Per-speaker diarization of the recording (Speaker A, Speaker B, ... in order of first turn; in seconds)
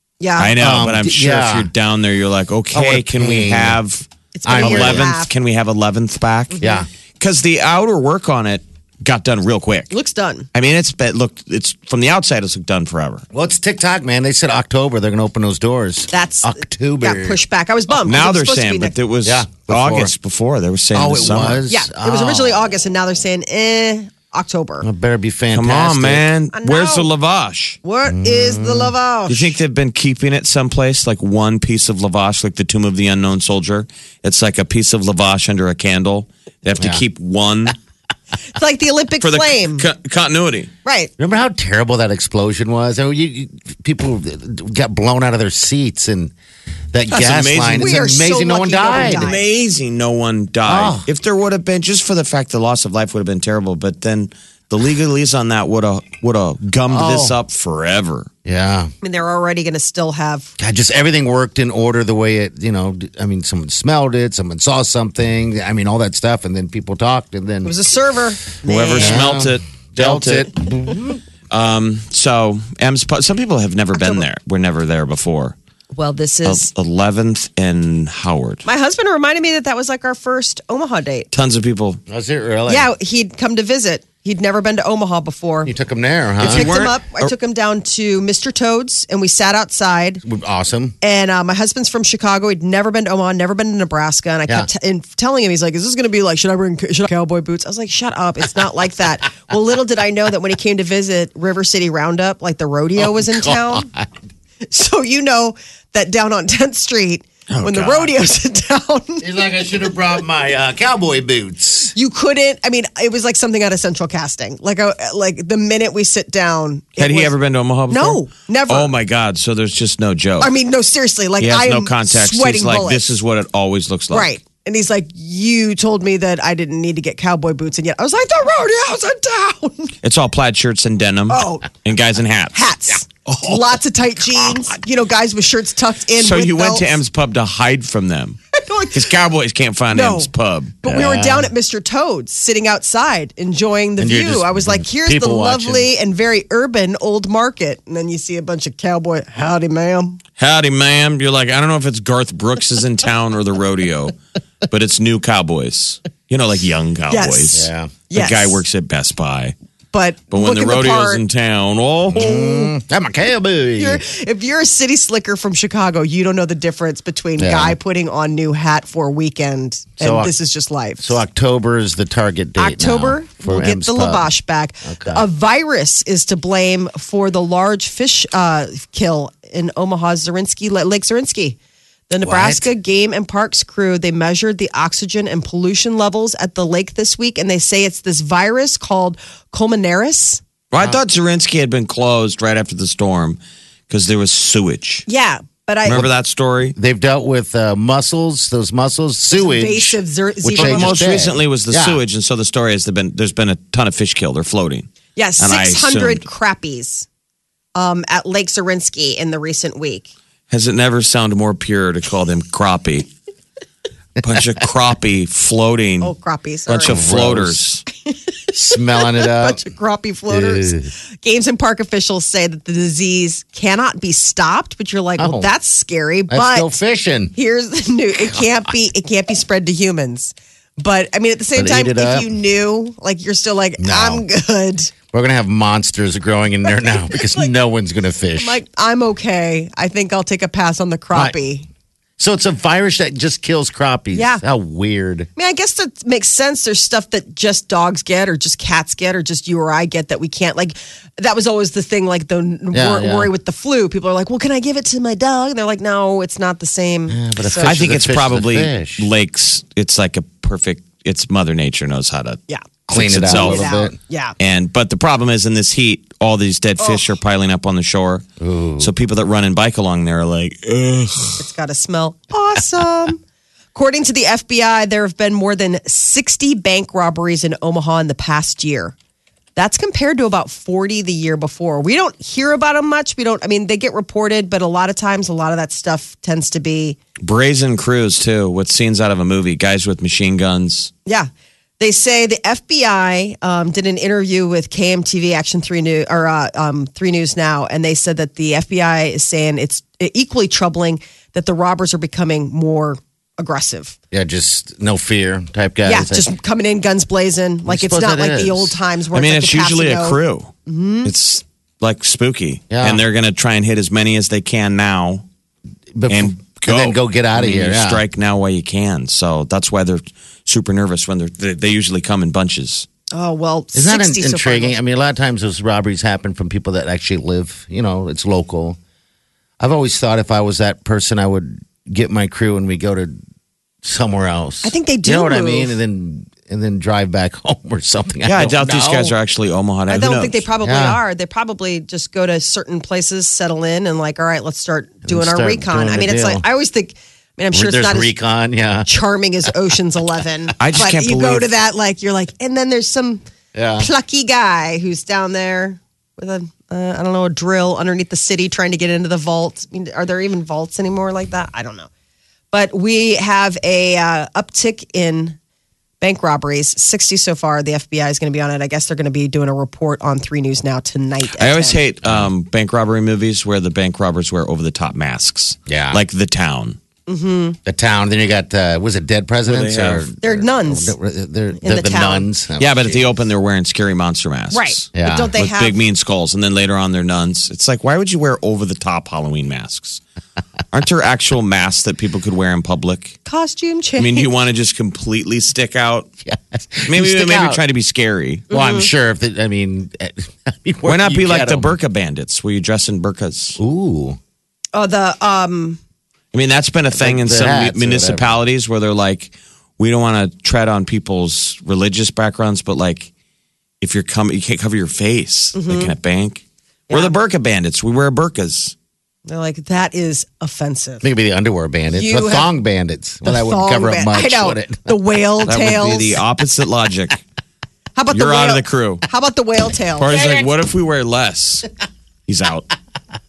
Speaker A: 0.2-0.5, 4.3-5.3, 6.5-6.8, 9.9-10.5, 16.1-18.9, 21.7-24.9, 26.5-27.1, 27.8-29.5, 38.5-39.9, 40.8-41.1, 47.1-49.4, 59.0-60.5, 67.6-69.2, 74.0-74.2, 75.9-76.7, 78.6-81.3, 82.7-85.7, 86.4-90.2, 91.0-103.9, 104.7-109.3, 111.9-117.3, 117.9-118.9, 120.4-123.0, 124.1-129.9, 131.3-131.7, 132.5-137.0, 138.5-139.1, 139.9-140.3, 140.8-150.2, 157.1-158.6, 159.9-161.2, 162.1-162.7, 163.8-171.2, 172.6-181.6, 182.1-190.4, 195.1-196.1, 199.3-201.3, 205.1-207.1, 207.7-210.1, 216.0-217.0, 219.0-226.7, 227.3-234.9, 236.8-237.4, 238.4-241.7, 244.1-244.4, 245.3-257.8, 263.3-264.3, 266.8-267.1, 271.4-273.2, 273.7-278.9, 279.6-287.0, 291.1-303.9, 305.9-311.1, 323.1-324.8, 334.6-335.7, 339.9-348.1, 348.9-353.2, 353.8-361.9, 362.5-365.4, 366.0-371.8, 377.1-377.6, 380.2-380.9, 381.6-382.3, 384.5-385.8, 393.2-394.3, 398.5-398.9, 404.7-405.8, 415.5-415.9, 416.9-417.1, 419.3-421.1, 421.9-422.5, 423.2-426.2, 427.9-430.1
Speaker B: 0.4-4.1, 4.6-6.7, 7.2-9.9, 10.5-13.2, 17.9-21.6, 25.5-27.8, 29.3-37.8, 39.2-40.7, 47.1-47.9, 49.0-58.3, 68.7-70.6, 71.5-75.5, 76.4-78.6, 81.3-82.0, 86.4-87.3, 107.5-108.2, 117.0-120.5, 121.4-124.3, 130.0-132.6, 136.2-138.4, 138.9-140.8, 150.4-154.2, 154.7-159.5, 160.3-162.2, 190.7-195.1, 195.8-196.8, 200.5-206.2, 210.5-213.1, 214.2-216.1, 216.7-217.8, 257.6-263.7, 264.4-268.2, 268.8-271.4, 287.2-290.9, 309.1-310.5, 311.0-315.2, 316.1-322.9, 338.2-340.4, 350.6-351.5, 371.4-376.8, 379.4-380.1, 382.6-390.0, 390.7-393.2, 394.0-396.1, 396.9-398.5, 400.8-403.6, 406.3-413.1, 413.8-418.7, 425.4-427.2, 428.1-429.0, 430.0-431.7, 432.3-432.7
Speaker C: 0.5-1.7, 2.7-3.8, 4.5-5.1, 6.6-6.9, 13.3-17.4, 19.2-20.1, 20.9-22.6, 24.8-26.3, 28.1-28.9, 36.8-37.0, 41.2-46.3, 46.9-49.3, 50.6-51.1, 56.9-57.4, 58.4-58.9, 60.6-67.7, 68.9-71.2, 82.1-82.9, 85.7-86.7, 90.2-90.9, 103.0-104.1, 109.2-111.9, 140.8-141.5, 144.0-145.9, 157.5-157.9, 162.1-164.0, 167.4-167.8, 170.0-170.3, 171.0-174.3, 174.8-175.3, 182.2-182.7, 196.8-202.0, 216.8-217.6, 218.5-219.6, 220.3-220.9, 225.2-225.5, 226.3-227.3, 231.6-232.2, 233.8-234.2, 235.1-238.6, 242.2-245.3, 252.7-253.3, 257.1-259.1, 262.9-263.9, 268.4-268.9, 304.1-306.3, 307.7-308.8, 312.7-313.0, 315.9-318.0, 323.7-328.8, 329.6-333.2, 333.8-339.1, 340.6-341.0, 345.0-346.4, 347.5-348.9, 353.5-353.9, 372.0-372.3, 375.7-376.0, 377.6-383.1, 384.9-385.3, 396.2-397.6, 398.5-401.7, 403.6-404.2, 406.9-408.4, 421.0-424.9, 430.1-430.5